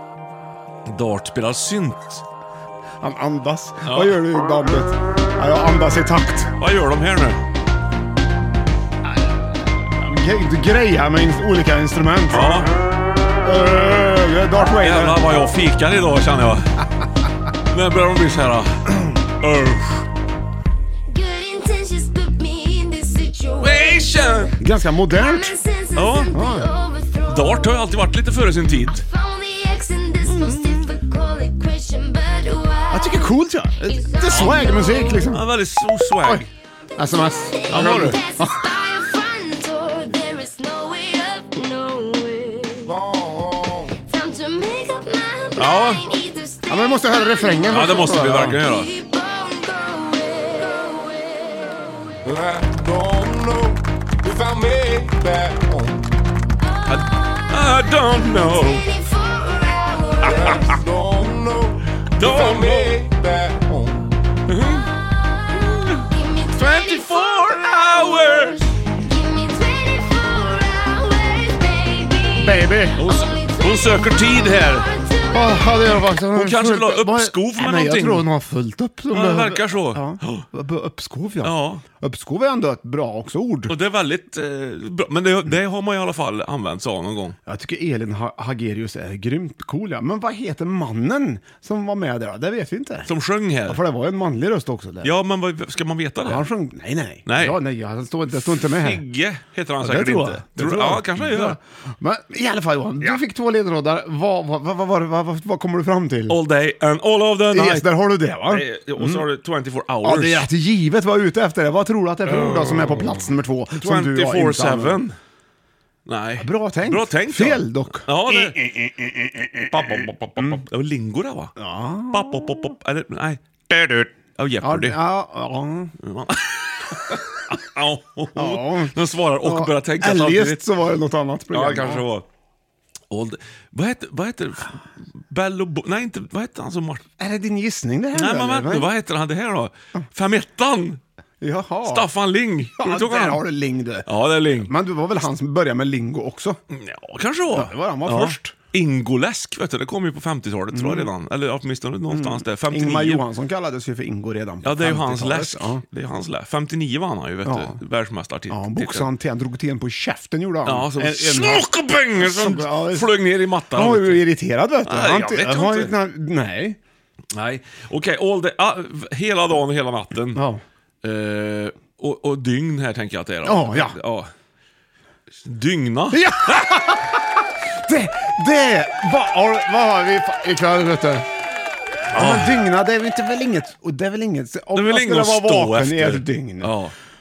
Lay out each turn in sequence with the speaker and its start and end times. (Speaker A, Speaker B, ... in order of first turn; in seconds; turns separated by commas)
Speaker A: 0.9-2.2, Speaker B: 3.0-6.5, Speaker A: 3.9-4.2, Speaker A: 6.6-7.4, Speaker B: 9.1-12.7, Speaker A: 12.3-12.7, Speaker B: 13.4-15.2, Speaker A: 14.8-16.7, Speaker A: 17.7-18.9, Speaker A: 19.4-20.1, Speaker C: 21.1-24.5, Speaker A: 23.6-24.5, Speaker B: 24.6-25.6, Speaker C: 25.1-27.8, Speaker A: 25.9-26.3, Speaker B: 26.3-26.7, Speaker A: 27.3-29.0, Speaker C: 28.9-33.3, Speaker A: 30.2-30.9, Speaker B: 32.9-35.5, Speaker C: 33.9-35.3, Speaker A: 34.3-36.5, Speaker B: 36.2-38.6, Speaker C: 37.5-43.0, Speaker A: 37.7-38.2, Speaker D: 42.9-44.0, Speaker C: 44.1-47.9, Speaker A: 45.6-46.0, Speaker B: 46.7-48.6, Speaker A: 47.7-48.9, Speaker C: 48.6-51.9, Speaker D: 52.2-56.0, Speaker C: 56.7-60.8, Speaker A: 56.9-58.9, Speaker D: 60.2-64.1, Speaker A: 60.2-60.8, Speaker A: 62.1-63.0, Speaker A: 64.5-64.9, Speaker A: 65.6-68.6, Speaker C: 66.0-75.9, Speaker B: 72.4-73.0, Speaker A: 73.0-74.9, Speaker B: 75.3-83.7, Speaker A: 76.3-78.3, Speaker A: 79.1-80.5, Speaker A: 81.4-81.8, Speaker A: 83.7-87.4, Speaker B: 87.5-93.1, Speaker A: 93.1-93.8, Speaker B: 93.7-95.1, Speaker A: 95.0-96.5, Speaker B: 96.2-99.0, Speaker A: 97.3-97.6, Speaker A: 98.5-101.6, Speaker B: 99.8-106.4, Speaker A: 106.3-107.9, Speaker B: 107.5-109.2, Speaker A: 108.5-110.5, Speaker B: 110.0-115.0, Speaker A: 112.3-115.2, Speaker A: 116.1-118.7, Speaker B: 116.4-120.6, Speaker A: 119.7-121.5, Speaker B: 121.6-122.7, Speaker A: 122.1-125.0, Speaker B: 124.6-125.9, Speaker A: 126.0-130.6, Speaker B: 128.4-132.1, Speaker A: 131.5-132.2, Speaker A: 133.1-137.1, Speaker B: 137.2-138.9, Speaker A: 138.2-141.0, Speaker B: 141.4-142.1, Speaker A: 141.8-143.4, Speaker B: 142.8-146.6, Speaker A: 144.1-144.7, Speaker A: 146.7-153.2, Speaker B: 147.5-148.5, Speaker B: 150.7-151.1, Speaker B: 152.1-155.8, Speaker A: 154.6-159.1, Speaker B: 157.4-157.8, Speaker B: 158.5-163.1, Speaker A: 160.7-164.3, Speaker B: 163.7-166.8, Speaker A: 164.8-165.9, Speaker A: 167.3-170.4, Speaker B: 170.3-170.6, Speaker A: 171.0-174.3, Speaker B: 173.4-174.0, Speaker A: 175.4-176.6, Speaker B: 176.1-181.3, Speaker B: 182.1-186.8, Speaker A: 182.2-182.6, Speaker A: 184.8-186.9